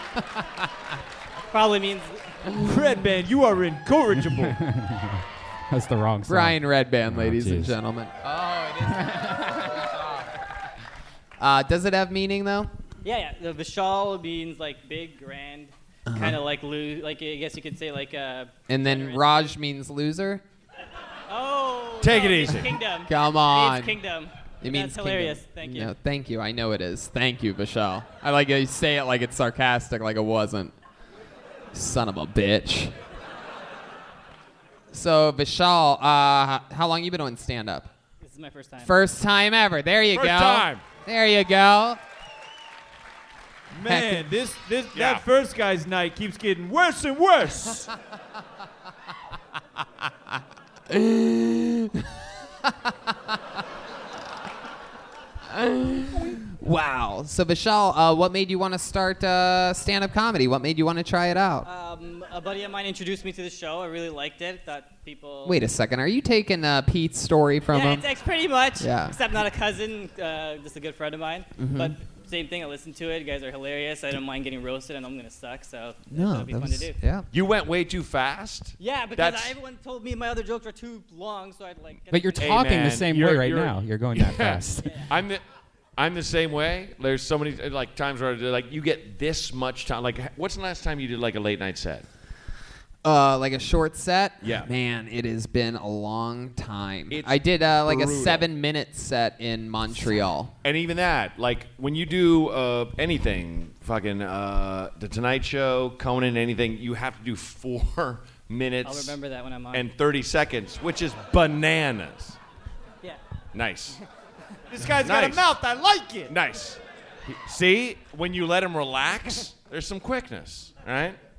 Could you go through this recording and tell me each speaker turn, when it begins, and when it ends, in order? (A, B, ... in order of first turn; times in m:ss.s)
0:01.5-0:02.2 A
0:02.5-0:04.6 B
0:04.4-0:07.8 C
0:06.3-0:10.1 D
0:08.9-0:09.5 C
0:11.4-0:12.7 D
0:13.0-0:19.5 A
0:16.1-0:16.4 D
0:18.7-0:20.4 D
0:21.3-0:25.9 A
0:22.0-0:22.8 E
0:23.1-0:24.0 D
0:24.6-0:30.7 D
0:31.7-0:32.9 D
0:34.9-0:37.9 D
0:38.2-0:39.0 A
0:38.8-0:42.0 D
0:40.1-0:40.8 E
0:43.7-0:47.9 B
0:43.9-0:44.2 D
0:44.9-0:45.2 E
0:50.9-0:52.1 D
0:55.5-1:01.7 D
1:01.6-1:05.6 A
1:05.4-1:08.0 D
1:07.7-1:17.0 A
1:08.8-1:09.2 D
1:11.6-1:12.0 D
1:16.1-1:17.3 D
1:17.3-1:19.6 E
1:18.8-1:22.4 A
1:22.1-1:25.0 C
1:22.4-1:25.4 E
1:24.8-1:25.1 A
1:26.0-1:32.1 E
1:33.0-1:40.5 D
1:34.4-1:34.7 E
1:37.1-1:38.5 E
1:40.6-1:49.2 E
1:48.8-1:49.9 A
1:49.7-1:52.4 E
1:53.5-1:54.0 E
1:54.7-1:56.3 B
1:54.9-1:55.5 E
1:56.3-2:01.2 E